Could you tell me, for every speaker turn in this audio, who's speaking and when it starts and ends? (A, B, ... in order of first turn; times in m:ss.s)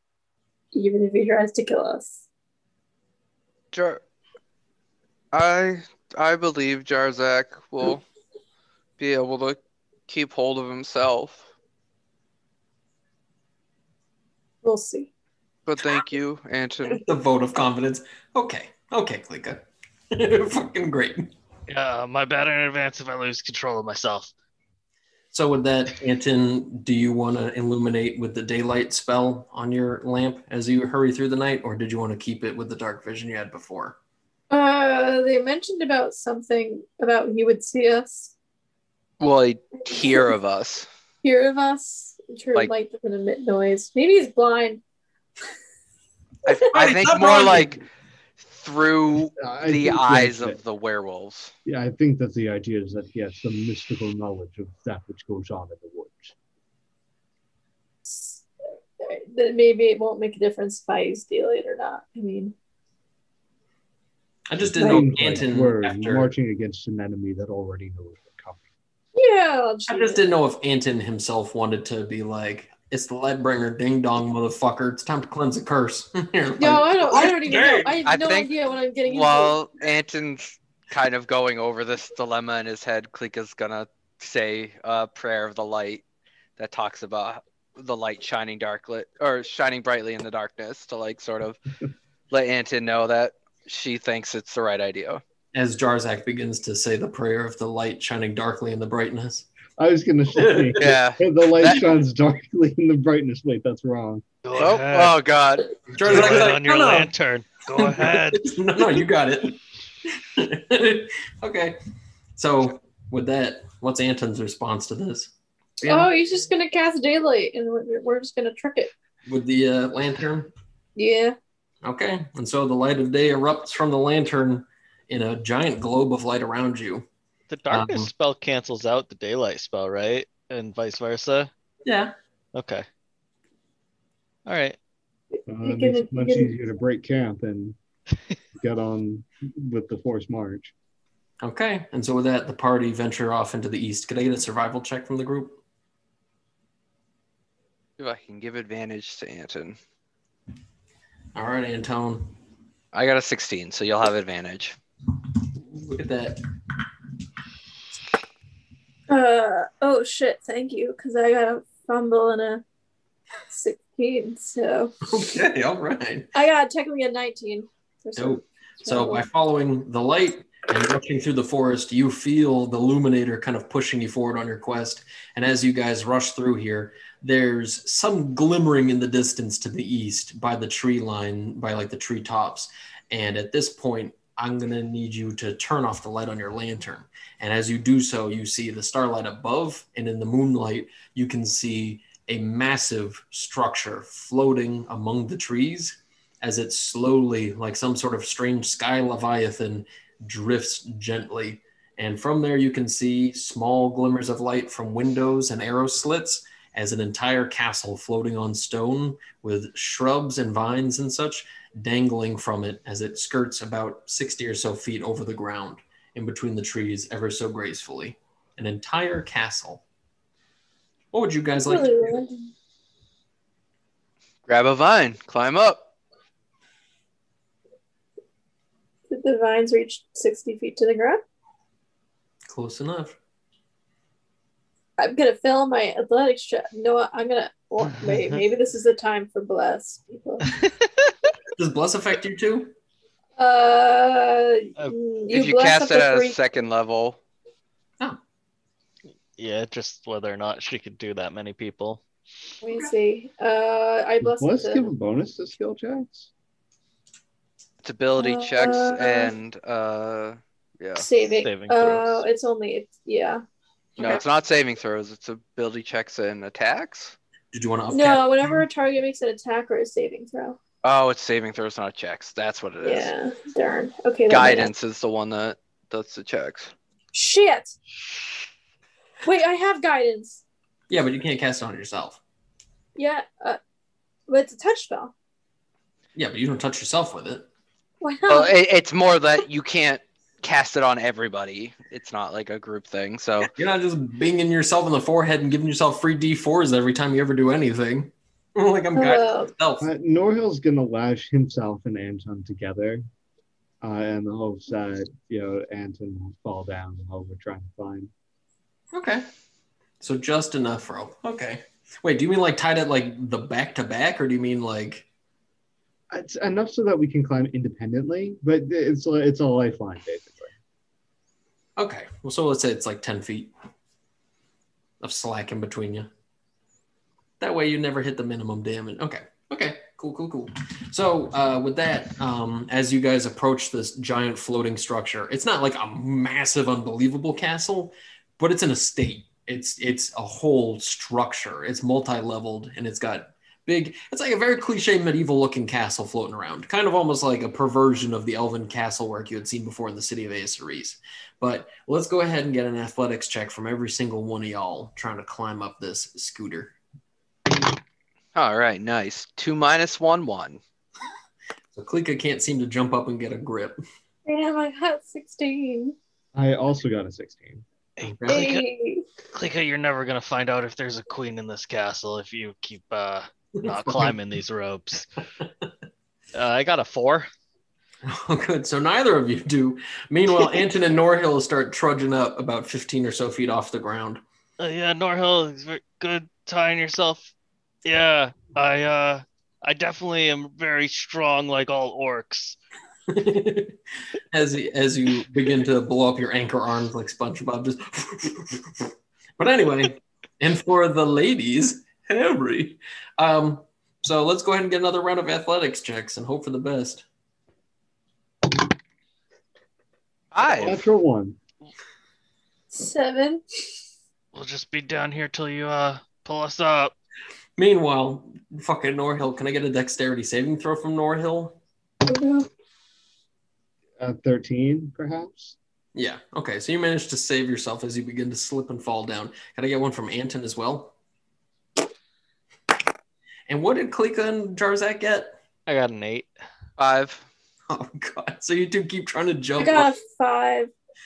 0:00.7-0:02.2 A
0:03.7-0:04.0 B
0:05.3-0:08.0 B
0:09.0-0:11.5 B
0:14.6-0:15.1 A
0:15.6-0:17.0 B
0:16.9-0:21.3 C
0:21.7-0:24.3 D
0:25.3-0:34.0 C
0:34.5-0:38.3 A
0:39.2-0:40.9 B
0:41.2-0:44.8 A
0:46.4-0:47.8 B
0:46.6-0:47.8 C
0:48.4-0:51.5 B
0:49.4-0:50.6 E
0:51.6-0:56.3 E
0:58.0-0:58.5 A
0:59.0-1:02.5 A
1:04.5-1:06.3 C
1:04.6-1:08.6 E
1:04.8-1:05.1 A
1:09.1-1:10.2 A
1:09.9-1:18.0 C
1:16.6-1:19.6 A
1:18.0-1:18.5 B
1:19.0-1:26.0 B
1:26.6-1:31.6 B
1:32.3-1:35.2 B
1:35.5-1:39.5 C
1:39.8-1:44.2 E
1:40.4-1:41.0 C
1:40.8-1:41.8 B
1:44.4-1:45.2 D
1:44.5-1:46.4 B
1:45.9-1:47.1 C
1:46.0-1:48.4 D
1:47.7-1:51.8 C
1:52.4-1:55.3 C
1:55.8-1:56.1 C
1:55.9-1:58.9 A
1:59.2-2:00.5 C
2:01.0-2:01.4 A
2:01.8-2:07.0 C
2:07.5-2:11.5 D
2:07.7-2:08.1 C
2:11.8-2:12.1 C
2:12.5-2:12.9 D
2:14.4-2:14.8 D
2:15.3-2:16.5 A
2:15.5-2:17.8 E
2:18.5-2:20.7 E
2:21.4-2:25.6 C
2:28.0-2:29.8 B
2:31.3-2:32.3 C
2:32.9-2:34.8 B
2:35.6-2:36.4 C
2:39.1-2:42.6 A
2:43.5-2:44.9 A
2:45.1-2:46.3 C
2:46.3-2:49.2 A
2:48.2-3:39.8 C
3:41.1-3:42.1 C
3:41.7-3:42.5 A
3:44.4-3:45.8 B
3:49.1-3:51.2 A
3:52.5-3:53.2 C
3:55.0-4:00.6 A
3:58.0-3:58.3 D
4:00.5-4:01.3 D
4:01.6-4:02.7 C
4:03.4-4:06.4 A
4:05.3-4:07.2 B
4:09.4-4:12.0 D
4:12.6-4:14.9 A
4:14.2-4:16.3 E
4:17.8-4:21.1 B
4:18.2-4:19.3 A
4:21.0-4:23.4 A
4:21.4-4:22.2 D
4:24.0-4:27.2 B
4:27.5-4:28.6 C
4:27.9-4:30.6 A
4:30.8-4:33.1 B
4:32.8-4:34.7 A
4:34.3-4:36.7 B
4:37.1-4:37.8 A
4:39.2-4:40.4 A
4:40.9-4:42.2 C
4:43.0-4:43.6 A
4:44.3-4:45.1 A
4:46.1-4:47.5 C
4:48.0-4:48.5 A
4:48.3-4:53.5 B
4:53.4-4:59.8 C
4:58.9-4:59.5 A
4:59.8-5:03.0 E
5:03.8-5:08.1 E
5:08.9-5:09.3 C
5:10.0-5:15.0 C
5:16.1-5:20.5 E
5:21.8-5:23.5 C
5:25.0-5:26.1 C
5:27.4-5:56.7 C
5:58.3-6:00.6 B
6:01.7-6:03.8 C
6:04.2-6:06.0 A
6:06.3-6:07.6 E
6:08.0-6:08.6 D
6:08.0-6:08.4 C
6:08.3-6:09.0 A
6:09.3-6:15.1 D
6:13.6-6:14.2 C
6:16.3-6:17.3 D
6:18.0-6:24.2 C
6:24.6-6:27.3 D
6:27.8-6:32.6 D
6:33.1-6:33.7 C
6:34.3-6:47.0 C
6:50.3-6:50.8 B
6:50.6-6:51.4 E
6:52.7-6:53.4 A
6:54.3-6:56.9 D
6:57.6-7:01.6 C
7:02.1-7:02.5 A
7:04.0-7:05.6 E
7:05.9-7:10.9 C
7:13.5-7:15.4 C
7:15.7-7:16.3 D
7:16.8-7:17.2 B
7:17.7-7:19.9 C
7:19.6-7:20.7 A